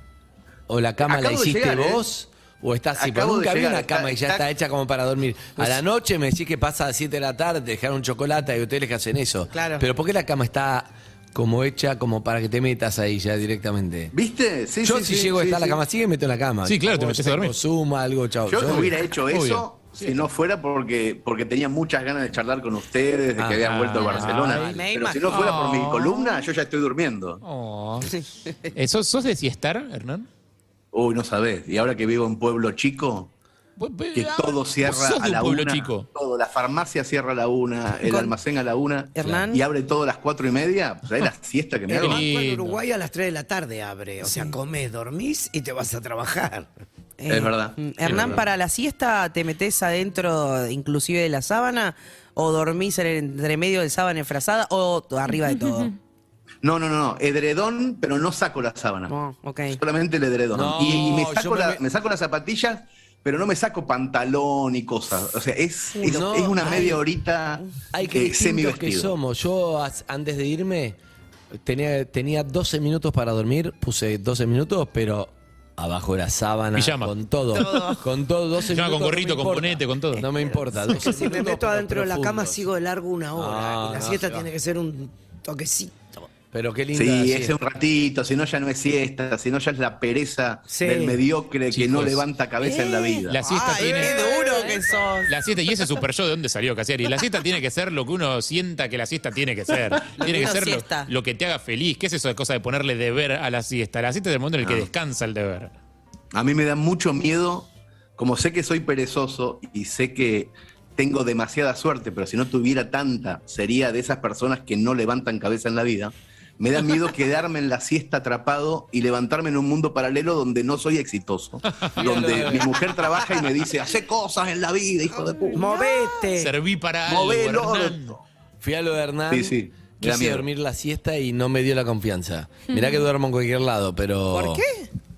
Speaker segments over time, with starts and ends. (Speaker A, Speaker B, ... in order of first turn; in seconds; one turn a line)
Speaker A: 0.7-14.1
Speaker B: 1.0-2.0
Speaker B: 3.0-4.5
Speaker C: 9.5-9.8
Speaker B: 14.1-15.8
Speaker A: 14.8-18.9
Speaker D: 16.6-17.6
Speaker B: 18.5-27.4
Speaker D: 18.7-20.2
Speaker A: 23.4-24.8
Speaker D: 23.6-24.6
Speaker C: 24.5-25.2
Speaker D: 25.3-26.5
Speaker D: 27.4-30.3
Speaker B: 30.9-33.3
Speaker D: 33.8-36.1
Speaker B: 34.1-42.3
Speaker C: 38.0-38.4
Speaker C: 39.1-39.6
Speaker E: 41.9-46.7
Speaker D: 41.9-42.8
Speaker C: 44.2-44.5
Speaker C: 47.2-55.9
Speaker B: 47.3-48.5
Speaker D: 48.1-48.4
Speaker B: 56.6-59.1
Speaker C: 59.1-59.8
Speaker B: 59.7-69.2
Speaker A: 60.5-61.8
Speaker A: 66.0-67.0
Speaker A: 67.9-71.0
Speaker A: 71.7-82.6
Speaker D: 76.8-77.1
Speaker C: 77.6-78.0
Speaker D: 78.6-80.3
Speaker E: 80.8-86.2
Speaker A: 83.4-84.5
Speaker A: 86.5-87.6
Speaker B: 86.9-93.4
Speaker E: 90.7-91.2
Speaker D: 91.7-92.2
Speaker C: 92.6-95.3
Speaker D: 93.3-94.5
Speaker E: 93.7-95.1
Speaker D: 95.2-105.7
Speaker C: 100.2-101.1
Speaker B: 104.6-104.9
Speaker B: 106.3-125.7
Speaker D: 121.8-122.2
Speaker A: 122.0-122.7
Speaker E: 125.5-126.5
Speaker D: 126.4-128.2
Speaker B: 127.1-128.2
Speaker A: 128.6-134.6
Speaker B: 129.3-130.5
Speaker C: 134.3-134.9